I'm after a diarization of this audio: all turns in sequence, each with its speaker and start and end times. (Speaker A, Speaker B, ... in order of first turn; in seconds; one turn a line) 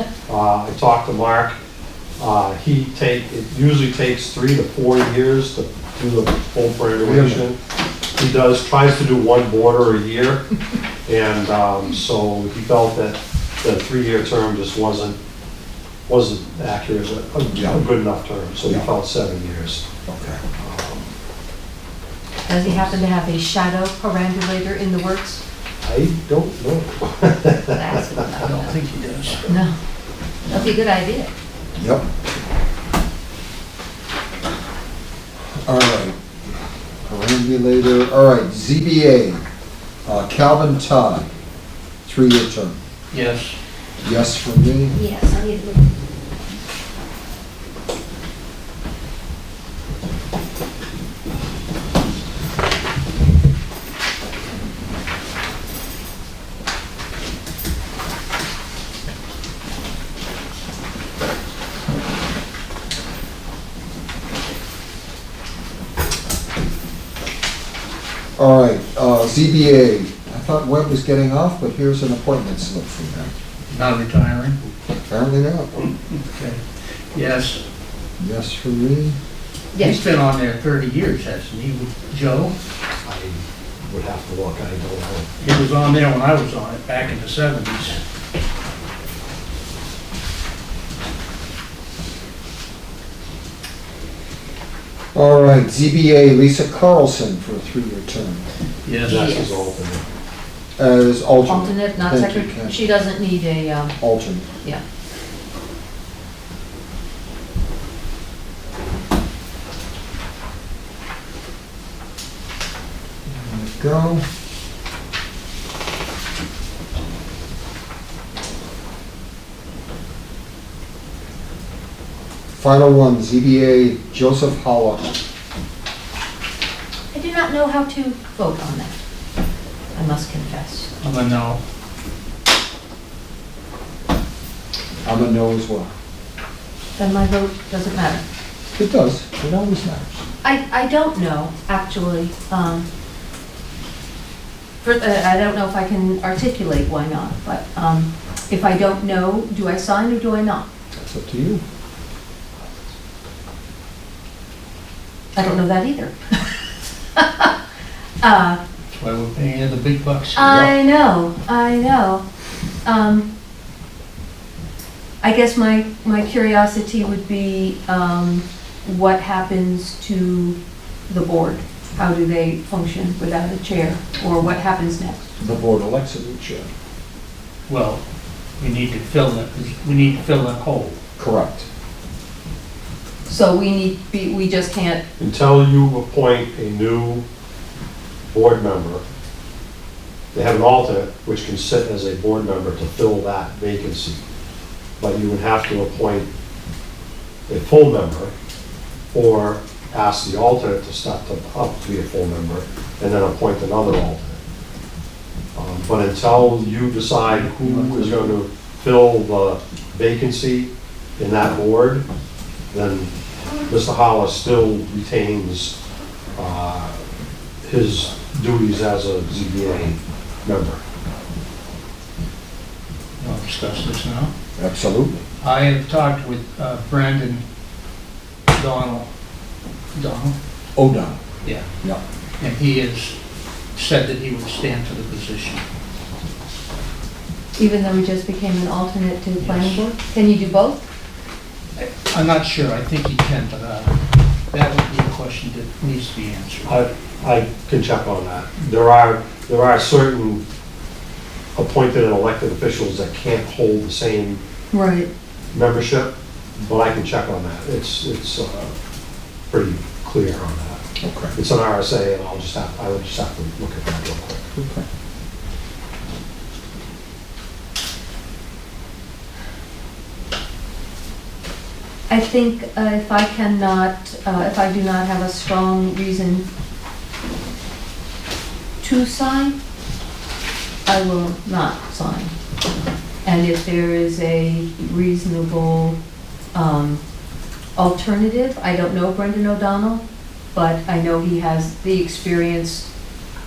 Speaker A: 0.3-1.6
Speaker A: 2.2-7.6
Speaker B: 7.0-7.4
Speaker A: 8.2-10.4
Speaker A: 11.1-15.2
Speaker A: 16.1-19.9
Speaker B: 17.5-17.8
Speaker B: 20.1-20.4
Speaker A: 20.6-21.1
Speaker C: 22.5-25.4
Speaker A: 22.6-23.0
Speaker A: 25.8-28.2
Speaker C: 27.6-28.8
Speaker D: 28.4-29.4
Speaker C: 29.4-29.7
Speaker C: 30.5-31.3
Speaker B: 31.8-32.1
Speaker B: 35.6-39.4
Speaker B: 40.0-41.3
Speaker B: 42.0-42.8
Speaker D: 43.1-43.6
Speaker B: 44.0-45.0
Speaker C: 44.9-45.9
Speaker B: 68.4-73.3
Speaker D: 73.7-74.6
Speaker B: 75.1-75.7
Speaker D: 75.8-77.6
Speaker B: 78.2-79.2
Speaker C: 79.7-80.0
Speaker D: 79.8-82.5
Speaker A: 83.0-85.3
Speaker D: 85.4-88.0
Speaker B: 95.1-98.5
Speaker D: 98.8-99.3
Speaker A: 99.0-100.0
Speaker C: 99.1-99.6
Speaker B: 100.8-103.0
Speaker C: 101.5-104.0
Speaker B: 104.0-104.5
Speaker B: 113.2-114.2
Speaker B: 122.6-125.1
Speaker C: 127.1-129.0
Speaker C: 129.9-130.9
Speaker D: 131.0-131.6
Speaker B: 135.1-135.9
Speaker C: 137.0-138.2
Speaker B: 138.8-140.2
Speaker C: 140.4-142.9
Speaker C: 144.8-150.7
Speaker B: 150.9-151.6
Speaker C: 155.3-156.6
Speaker C: 157.2-157.5
Speaker C: 158.2-158.6
Speaker D: 158.9-160.7
Speaker C: 160.3-162.2
Speaker C: 162.8-163.3
Speaker C: 165.2-170.6
Speaker C: 171.1-175.3
Speaker B: 175.4-176.7
Speaker D: 177.7-178.0
Speaker D: 178.6-181.0
Speaker B: 181.2-181.7
Speaker C: 183.3-185.0
Speaker A: 185.2-187.2
Speaker A: 188.3-189.0
Speaker A: 190.3-194.2
Speaker A: 195.0-196.3
Speaker A: 197.5-198.3
Speaker A: 199.1-204.4
Speaker A: 205.6-212.1
Speaker D: 207.3-208.1
Speaker A: 212.7-213.1
Speaker A: 213.7-215.8
Speaker A: 216.4-217.0
Speaker A: 217.6-220.8
Speaker D: 223.2-224.3
Speaker B: 224.6-225.2
Speaker D: 225.4-227.4
Speaker D: 228.5-229.1
Speaker D: 229.9-230.4
Speaker B: 230.8-231.2
Speaker D: 232.4-233.2
Speaker D: 233.8-235.6
Speaker C: 237.6-240.8
Speaker D: 239.4-239.9
Speaker D: 241.8-244.0
Speaker D: 244.5-246.8
Speaker A: 246.7-250.4
Speaker A: 251.6-254.4
Speaker C: 254.7-255.1
Speaker A: 255.5-258.8
Speaker A: 259.5-260.8
Speaker B: 261.0-261.4
Speaker A: 261.3-264.4
Speaker B: 264.6-264.9
Speaker C: 272.1-276.5
Speaker C: 278.8-279.6
Speaker C: 280.9-282.3
Speaker C: 283.2-286.0
Speaker C: 286.5-287.0
Speaker C: 287.8-290.0
Speaker C: 290.5-292.9